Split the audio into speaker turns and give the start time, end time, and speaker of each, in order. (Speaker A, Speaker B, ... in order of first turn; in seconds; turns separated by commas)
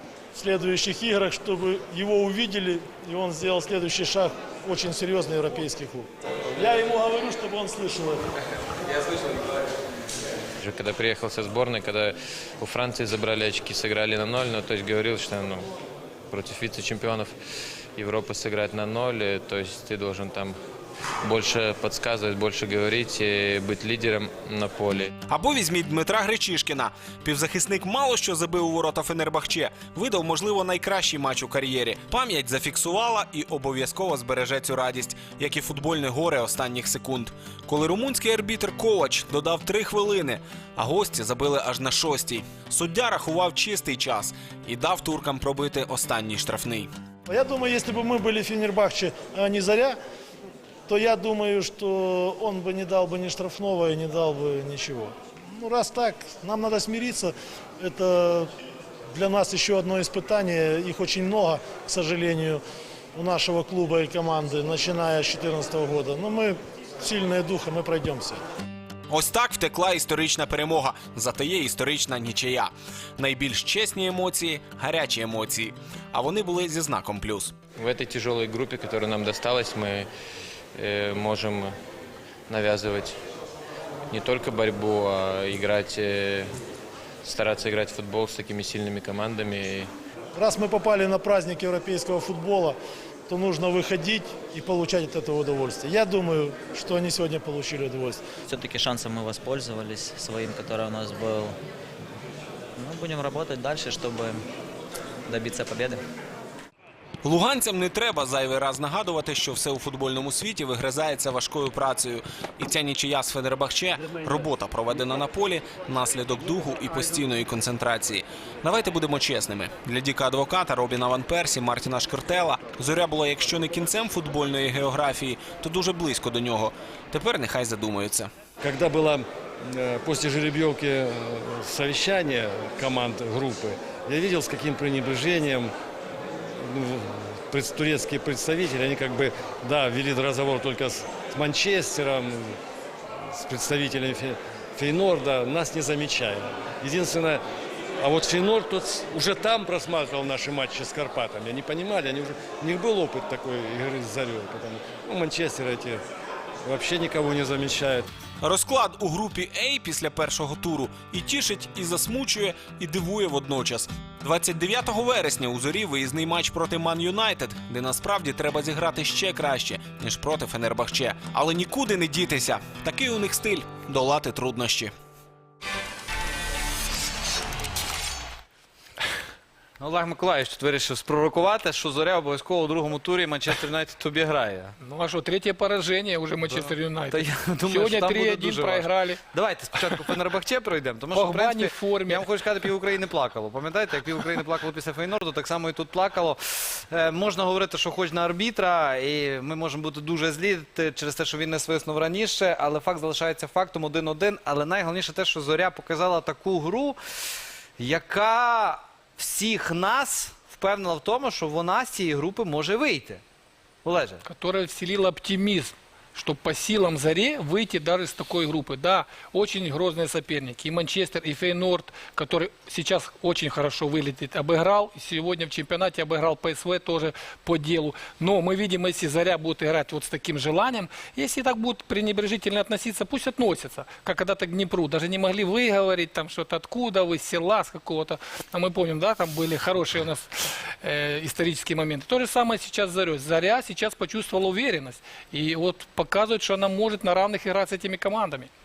Speaker A: 0.3-8.2, Speaker B: 10.6-15.7, Speaker B: 16.3-17.3, Speaker B: 18.0-20.6, Speaker B: 21.2-25.1, Speaker C: 25.3-46.9, Speaker A: 47.2-50.0, Speaker A: 50.9-58.5, Speaker A: 59.1-62.6, Speaker A: 63.1-68.4, Speaker C: 69.1-77.5, Speaker B: 77.8-80.1, Speaker B: 80.8-81.7, Speaker B: 82.5-83.2, Speaker B: 84.1-86.5, Speaker B: 87.2-89.9, Speaker A: 90.3-92.8, Speaker A: 93.3-98.2, Speaker D: 98.5-101.5, Speaker D: 102.8-104.4, Speaker D: 105.3-106.0, Speaker C: 107.2-128.3, Speaker E: 128.6-135.7, Speaker E: 136.3-142.6, Speaker E: 143.1-147.4, Speaker E: 148.0-156.0, Speaker E: 156.6-158.1, Speaker C: 158.4-174.9, Speaker F: 179.8-184.8, Speaker G: 184.8-189.2, Speaker F: 186.5-207.0, Speaker G: 191.1-192.3, Speaker F: 207.8-213.2, Speaker F: 213.8-214.2, Speaker G: 214.2-248.5